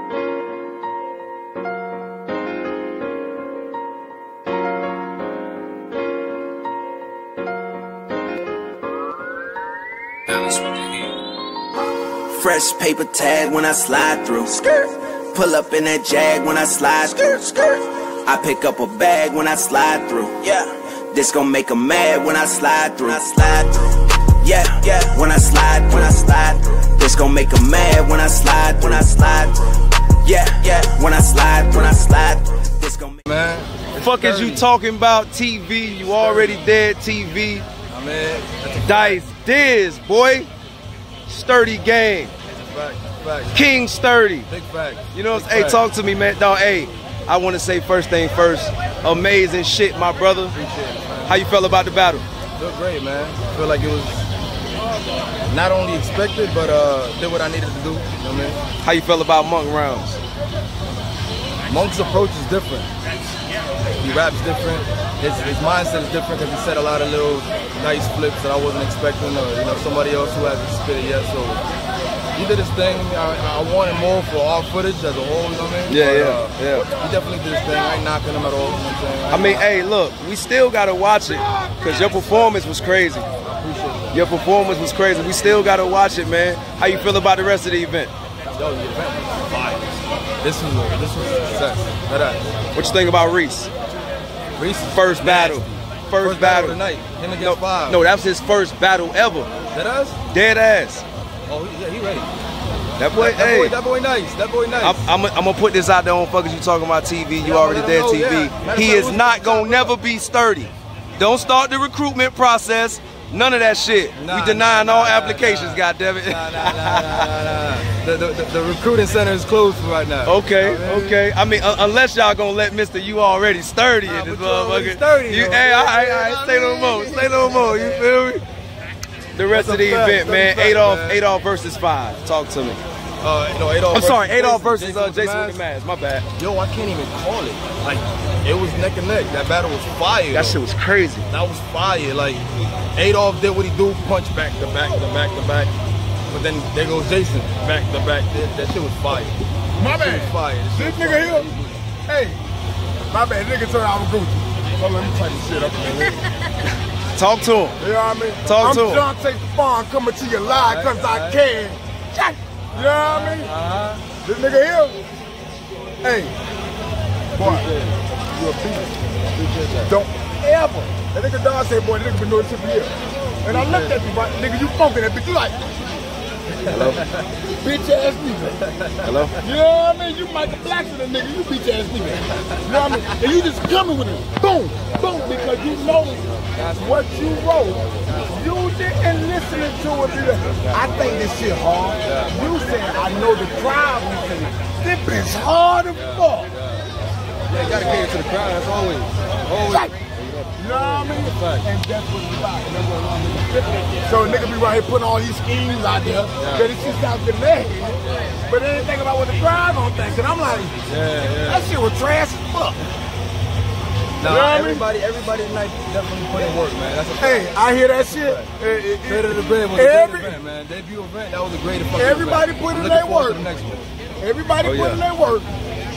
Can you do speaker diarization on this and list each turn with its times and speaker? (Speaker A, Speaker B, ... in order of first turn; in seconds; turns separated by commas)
Speaker A: 10.3-11.1, Speaker A: 12.2-33.2, Speaker B: 33.2-34.7, Speaker C: 34.0-37.6, Speaker B: 36.1-36.6, Speaker B: 37.9-39.2, Speaker C: 38.8-40.5, Speaker C: 41.3-42.3, Speaker B: 42.6-43.6, Speaker C: 43.5-44.5, Speaker B: 44.5-45.9, Speaker C: 45.1-50.5, Speaker B: 50.5-51.5, Speaker C: 51.3-52.2, Speaker B: 52.6-54.3, Speaker B: 55.5-58.6, Speaker C: 58.8-60.2, Speaker B: 61.7-62.9, Speaker B: 64.0-71.6, Speaker B: 72.3-79.7, Speaker C: 75.9-76.8, Speaker C: 79.3-83.2, Speaker B: 83.4-84.2, Speaker C: 84.1-88.1, Speaker B: 88.5-92.5, Speaker C: 92.7-93.7, Speaker B: 94.6-98.0, Speaker C: 94.9-96.8, Speaker C: 97.4-99.5, Speaker B: 99.7-100.2, Speaker C: 100.3-101.0, Speaker B: 101.5-102.3, Speaker C: 103.0-103.8, Speaker B: 103.1-105.1, Speaker C: 104.8-117.3, Speaker B: 107.4-109.9, Speaker B: 114.1-121.2, Speaker C: 120.2-128.4, Speaker B: 124.0-128.1, Speaker C: 129.3-132.8, Speaker B: 129.5-131.2, Speaker B: 133.2-135.6, Speaker C: 133.9-136.3, Speaker B: 136.3-140.6, Speaker C: 140.3-141.3, Speaker B: 141.3-145.7, Speaker B: 146.3-151.8, Speaker D: 149.8-151.5, Speaker D: 152.1-152.4, Speaker D: 153.1-156.2, Speaker C: 157.1-157.8, Speaker D: 157.8-163.5, Speaker C: 158.4-159.1, Speaker B: 160.5-161.4, Speaker B: 162.7-164.0, Speaker D: 164.2-165.0, Speaker D: 166.0-166.3, Speaker D: 167.4-167.7, Speaker B: 167.4-167.9, Speaker D: 168.3-168.9, Speaker B: 169.3-169.9, Speaker D: 169.9-175.6, Speaker B: 173.4-174.0, Speaker B: 176.6-177.4, Speaker C: 176.7-177.0, Speaker D: 177.6-178.6, Speaker B: 178.6-179.3, Speaker C: 179.0-179.3, Speaker D: 179.4-196.5, Speaker B: 182.5-183.0, Speaker B: 186.5-186.9, Speaker B: 192.0-192.3, Speaker B: 195.9-196.8, Speaker B: 197.5-201.7, Speaker D: 200.6-210.8, Speaker B: 206.4-206.7, Speaker B: 210.9-211.7, Speaker D: 211.4-212.8, Speaker B: 214.2-218.5, Speaker D: 214.2-214.9, Speaker D: 217.2-220.4, Speaker B: 219.0-223.9, Speaker D: 221.9-223.4, Speaker D: 224.2-225.5, Speaker B: 224.6-225.0